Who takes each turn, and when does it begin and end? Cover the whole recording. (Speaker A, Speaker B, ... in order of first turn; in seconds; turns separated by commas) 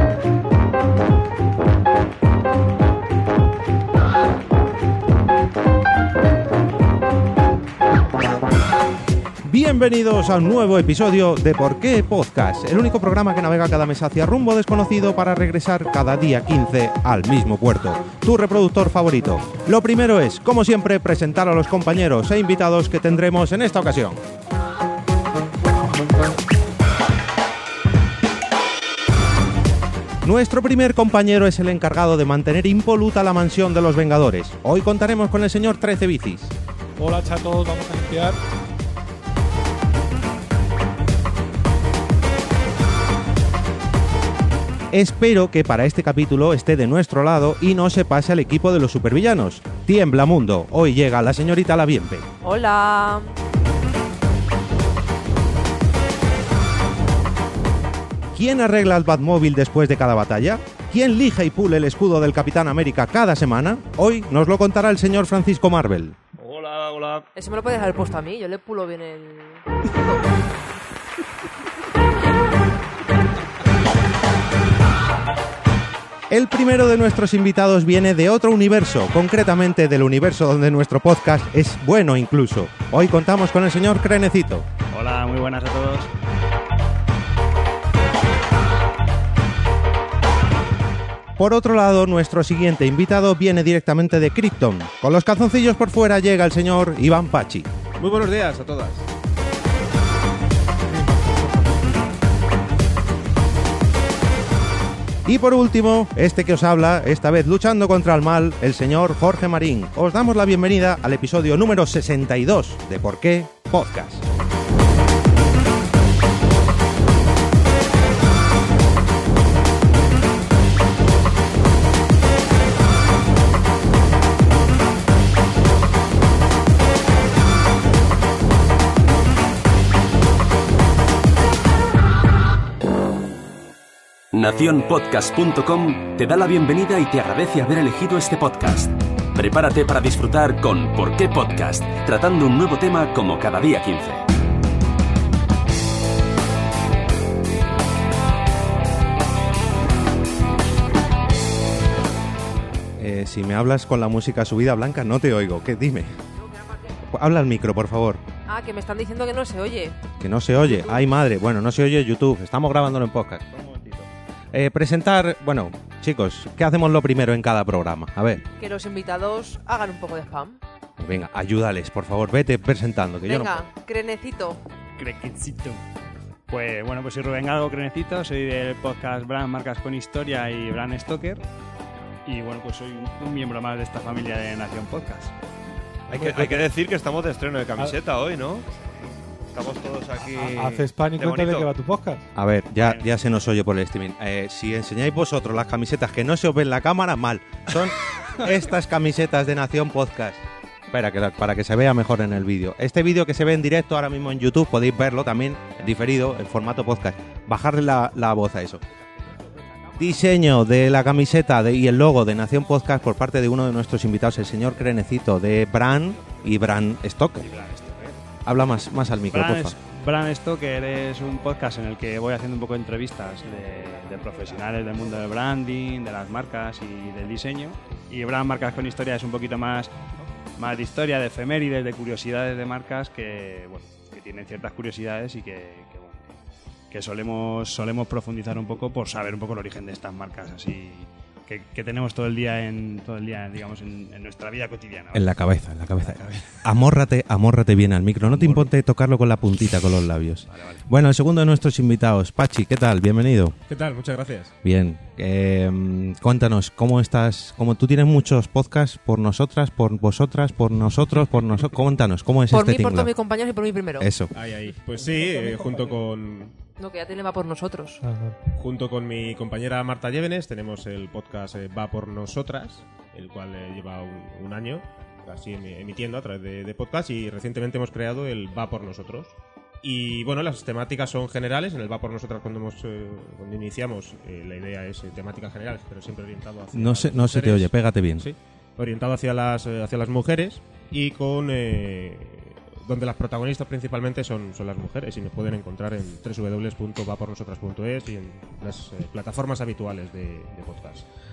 Speaker A: 9.4-24.2, Speaker A: 30.2-36.5, Speaker B: 37.0-38.4, Speaker A: 44.9-52.3, Speaker C: 52.4-53.3, Speaker A: 58.3-66.2, Speaker D: 66.4-67.2, Speaker C: 67.3-70.2, Speaker A: 76.3-84.7, Speaker E: 84.9-86.1, Speaker A: 91.4-97.7, Speaker F: 98.0-99.0, Speaker B: 100.8-102.2, Speaker A: 105.2-114.2, Speaker G: 134.3-144.2, Speaker A: 152.9-156.1, Speaker C: 156.4-156.9, Speaker A: 157.0-158.2, Speaker C: 158.4-160.0, Speaker A: 160.2-163.6, Speaker C: 160.6-161.0, Speaker F: 163.6-163.9, Speaker A: 164.5-168.4, Speaker C: 168.6-170.6, Speaker A: 171.0-173.6, Speaker C: 173.2-174.6, Speaker E: 175.0-175.8, Speaker E: 176.5-181.4, Speaker E: 182.2-185.3, Speaker D: 186.1-188.7, Speaker B: 186.1-186.7, Speaker D: 189.5-191.7, Speaker B: 190.2-192.3, Speaker A: 192.3-208.8, Speaker A: 210.0-217.5, Speaker E: 217.4-218.2, Speaker A: 218.4-219.7, Speaker E: 219.3-229.9, Speaker E: 230.6-236.4, Speaker E: 236.9-245.3, Speaker A: 245.1-253.6, Speaker E: 246.0-246.6, Speaker E: 248.2-248.7, Speaker E: 250.5-250.8, Speaker F: 253.7-254.5, Speaker A: 254.6-263.1, Speaker C: 262.5-264.1, Speaker A: 264.0-264.3, Speaker F: 264.3-266.6, Speaker C: 266.8-268.0, Speaker B: 268.0-268.4, Speaker F: 268.5-301.0, Speaker A: 286.7-288.3